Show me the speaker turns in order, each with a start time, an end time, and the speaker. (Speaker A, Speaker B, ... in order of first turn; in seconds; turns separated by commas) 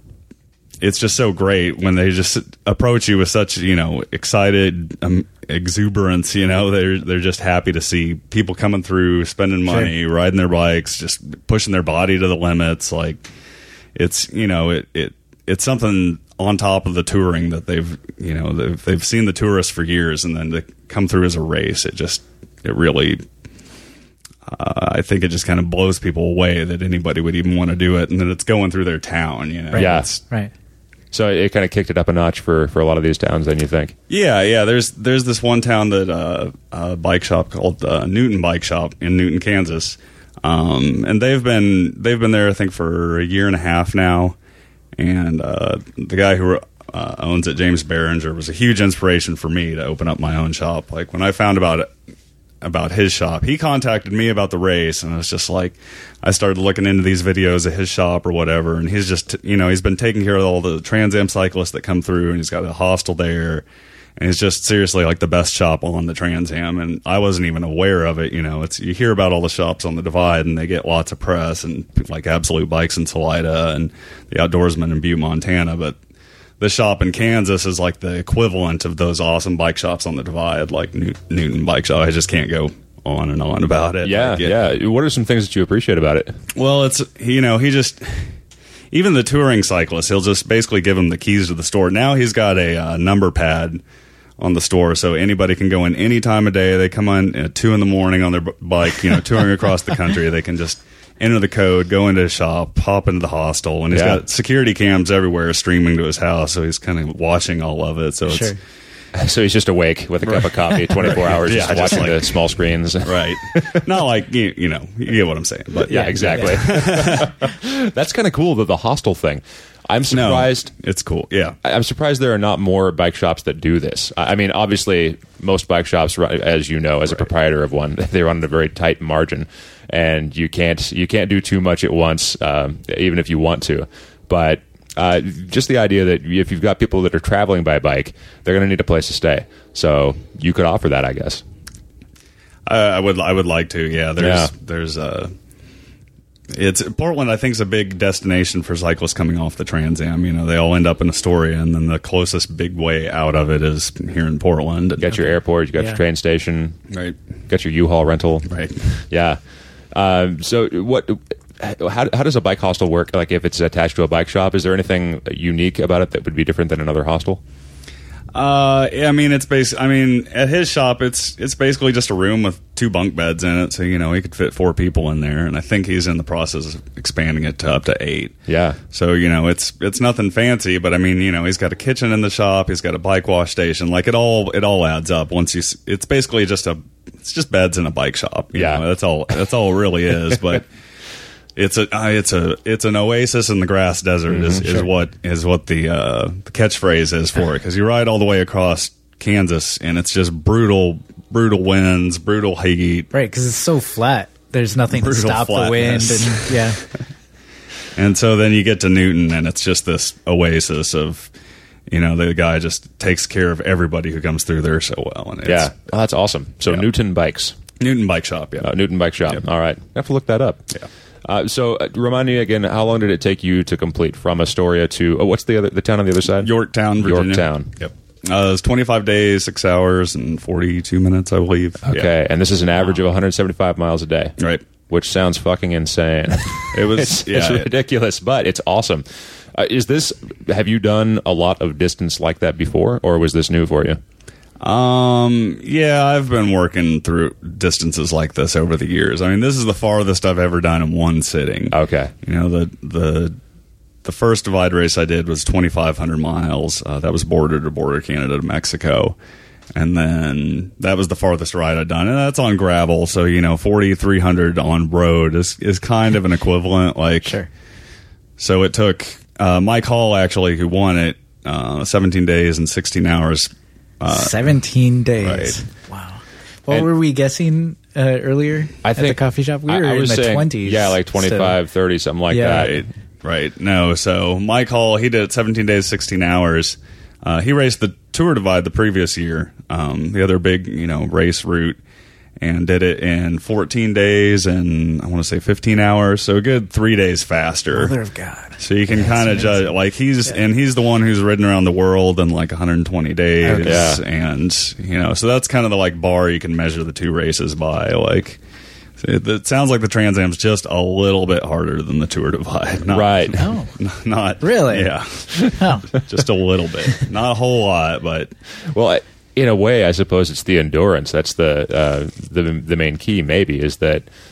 Speaker A: 0.8-13.2, Speaker A: 14.0-23.2, Speaker A: 24.5-30.2, Speaker B: 29.7-30.5, Speaker C: 29.8-30.1, Speaker C: 31.1-34.0, Speaker A: 34.1-44.4, Speaker A: 45.0-51.9, Speaker A: 52.6-63.6, Speaker A: 64.2-76.0, Speaker A: 76.6-84.6, Speaker C: 84.0-86.4, Speaker A: 86.5-88.3, Speaker A: 88.9-93.8, Speaker A: 94.4-108.5, Speaker C: 103.9-104.2, Speaker B: 108.3-108.6, Speaker C: 109.1-113.8, Speaker A: 110.2-112.4, Speaker A: 113.0-117.3, Speaker C: 115.9-120.7, Speaker B: 115.9-116.6, Speaker A: 120.1-121.6, Speaker C: 121.6-141.4, Speaker A: 142.7-145.3, Speaker C: 144.2-144.5, Speaker A: 146.5-155.2, Speaker C: 155.0-156.8, Speaker A: 156.9-157.2, Speaker C: 157.5-158.5, Speaker A: 158.5-159.0, Speaker C: 159.1-159.4, Speaker C: 159.9-167.4, Speaker A: 168.3-178.3, Speaker C: 178.5-178.8, Speaker A: 178.9-190.7, Speaker C: 188.5-188.8, Speaker A: 191.6-203.1, Speaker C: 194.3-194.7, Speaker B: 203.1-206.8, Speaker A: 204.9-206.7, Speaker A: 207.9-211.3, Speaker A: 211.9-215.7, Speaker C: 215.4-217.6, Speaker A: 217.8-218.7, Speaker C: 218.6-220.7, Speaker C: 221.2-227.7, Speaker A: 226.4-232.1, Speaker C: 231.9-234.4, Speaker A: 234.4-234.7, Speaker C: 234.9-244.0, Speaker A: 236.7-237.7, Speaker A: 244.6-253.3, Speaker C: 251.7-252.1, Speaker A: 254.0-259.1, Speaker A: 259.8-267.4, Speaker A: 268.4-274.5, Speaker B: 274.1-281.6, Speaker A: 275.2-275.6, Speaker C: 278.8-282.8, Speaker B: 282.3-282.8, Speaker A: 282.5-291.8, Speaker A: 292.4-297.9, Speaker B: 297.7-299.7, Speaker A: 298.6-308.4, Speaker B: 303.4-303.9, Speaker C: 303.6-304.0, Speaker A: 309.0-318.3, Speaker C: 312.9-313.4, Speaker B: 313.4-313.7, Speaker B: 314.4-315.9, Speaker C: 318.7-324.1